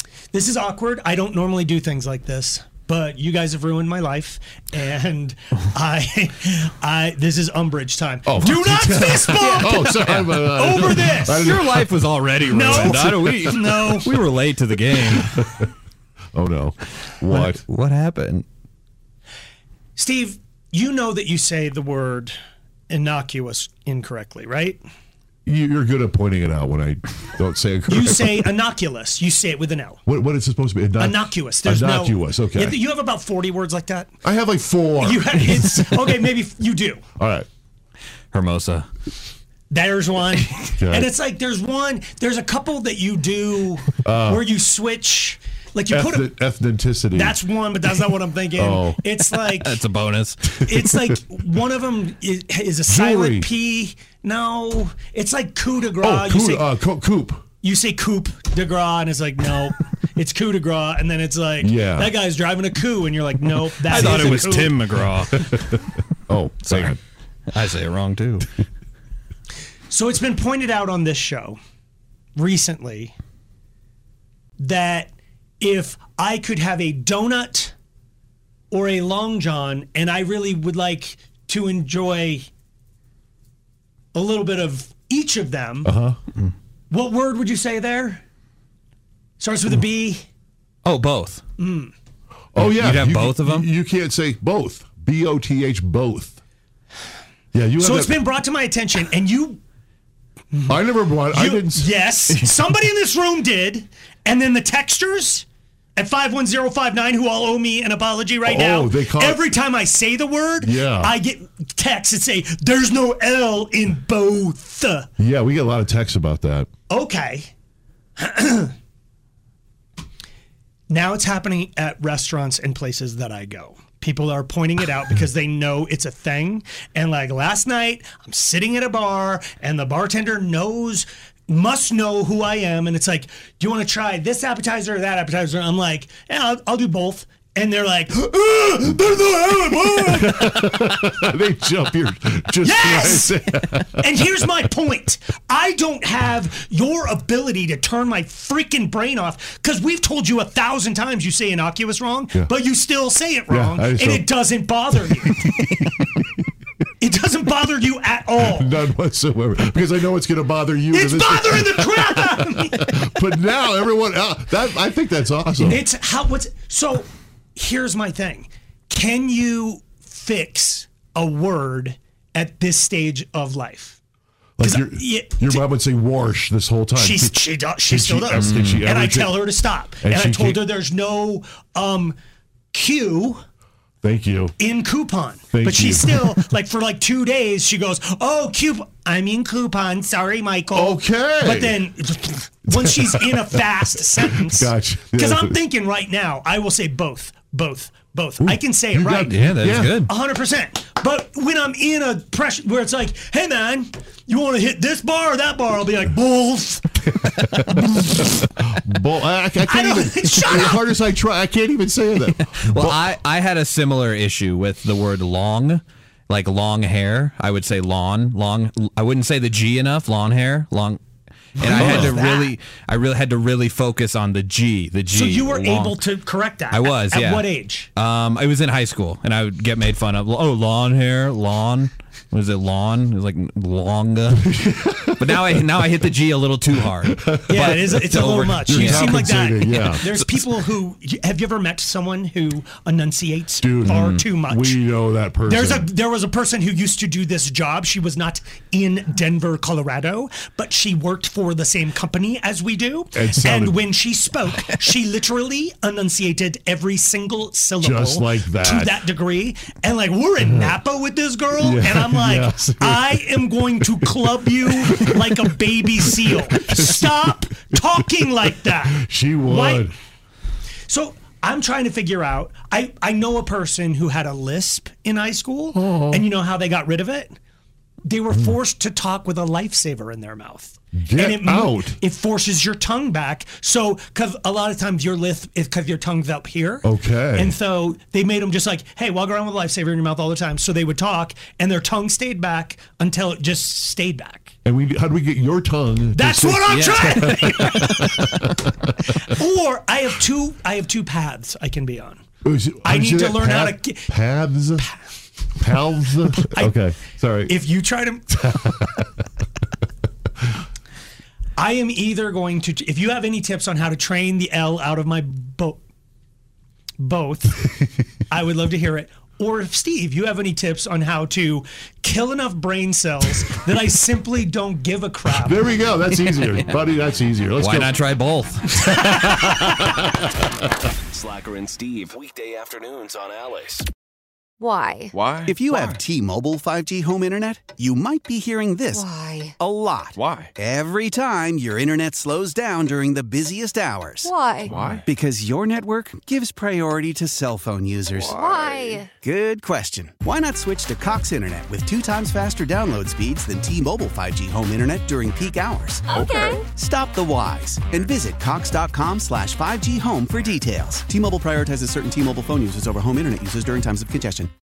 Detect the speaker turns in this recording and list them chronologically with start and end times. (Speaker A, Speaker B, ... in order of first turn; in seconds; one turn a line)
Speaker A: 0.3-9.9
Speaker B: 8.3-11.9
Speaker C: 8.7-15.6
Speaker A: 10.6-11.4
Speaker A: 12.5-14.1
Speaker B: 12.9-13.7
Speaker B: 15.1-15.7
Speaker B: 16.4-17.6
Speaker C: 17.3-18.4
Speaker A: 20.0-22.4
Speaker A: 22.9-24.8
Speaker B: 25.5-28.5
Speaker A: 27.9-30.0
Speaker B: 30.1-32.8
Speaker A: 31.0-34.1
Speaker B: 34.2-36.2
Speaker A: 35.0-37.0
Speaker B: 37.2-37.5
Speaker C: 38.3-38.9
Speaker A: 39.7-46.3
Speaker B: 40.8-41.1
Speaker B: 44.0-44.4
Speaker B: 45.9-47.4
Speaker A: 47.2-49.8
Speaker B: 48.6-49.0
Speaker C: 49.2-50.5
Speaker A: 50.6-56.6
Speaker B: 52.9-53.5
Speaker B: 56.0-57.4
Speaker A: 57.6-64.8
Speaker B: 61.6-62.1
Speaker C: 63.8-65.8
Speaker B: 66.3-67.0
Speaker C: 66.6-68.5
Speaker A: 69.9-71.6
Speaker A: 72.4-73.1
Speaker A: 74.6-77.7
Speaker A: 78.7-82.5
Speaker A: 84.1-85.9
Speaker B: 85.8-86.2
Speaker A: 86.9-88.2
Speaker A: 89.4-90.2
Speaker C: 90.8-91.4
Speaker A: 91.6-91.9
Speaker B: 92.5-96.4
Speaker C: 92.6-93.7
Speaker B: 97.5-98.2
Speaker A: 97.8-99.6
Speaker B: 100.7-102.4
Speaker A: 101.3-105.5
Speaker A: 106.0-115.1
Speaker B: 108.5-109.5
Speaker B: 110.6-111.2
Speaker B: 115.2-116.7
Speaker A: 116.9-117.5
Speaker A: 118.2-118.7
Speaker A: 120.9-140.3
Speaker B: 140.0-144.2
Speaker A: 142.6-155.3
Speaker B: 153.5-154.3
Speaker B: 155.0-156.1
Speaker A: 157.0-158.7
Speaker B: 158.4-165.8
Speaker A: 160.9-162.7
Speaker A: 165.6-174.0
Speaker B: 174.6-180.6
Speaker A: 174.6-175.6
Speaker A: 177.0-182.2
Speaker C: 178.3-178.9
Speaker A: 182.7-183.4
Speaker B: 184.0-184.6
Speaker A: 184.6-199.3
Speaker B: 185.5-186.3
Speaker B: 190.7-191.8
Speaker B: 192.7-195.6
Speaker B: 198.4-200.0
Speaker C: 199.2-200.1
Speaker A: 200.1-206.9
Speaker B: 207.4-208.0
Speaker B: 208.6-213.1
Speaker A: 209.6-210.8
Speaker C: 212.5-221.0
Speaker C: 221.6-226.0
Speaker B: 221.6-222.2
Speaker A: 221.6-222.5
Speaker A: 225.1-227.9
Speaker C: 226.7-240.5
Speaker B: 234.6-235.6
Speaker B: 237.1-240.1
Speaker A: 237.5-244.8
Speaker B: 243.6-245.9
Speaker C: 243.9-244.3
Speaker A: 245.5-268.9
Speaker B: 253.1-253.9
Speaker B: 257.8-259.0
Speaker B: 260.4-260.8
Speaker B: 261.6-263.3
Speaker B: 264.8-265.4
Speaker B: 266.1-269.9
Speaker A: 269.5-269.9
Speaker A: 270.9-277.4
Speaker B: 275.7-276.2
Speaker A: 278.0-286.8
Speaker B: 280.9-282.0
Speaker B: 286.8-287.6
Speaker A: 287.4-294.5
Speaker B: 294.6-299.1
Speaker A: 296.1-297.7
Speaker C: 296.6-298.4
Speaker A: 299.4-302.2
Speaker B: 302.4-304.9
Speaker A: 302.9-304.1
Speaker B: 305.6-307.6
Speaker A: 307.5-308.2
Speaker B: 308.4-309.1
Speaker A: 311.6-315.8
Speaker A: 317.0-317.6
Speaker A: 318.3-325.5
Speaker B: 325.4-328.0
Speaker C: 327.6-330.0
Speaker B: 329.6-330.2
Speaker D: 331.1-333.9
Speaker E: 334.6-335.1
Speaker D: 335.1-336.0
Speaker F: 335.4-339.1
Speaker E: 338.9-339.6
Speaker F: 339.6-344.3
Speaker D: 340.1-340.5
Speaker E: 344.2-344.9
Speaker D: 344.6-345.1
Speaker F: 345.0-364.5
Speaker E: 348.1-349.1
Speaker D: 348.2-349.1
Speaker D: 356.1-356.6
Speaker E: 356.1-356.6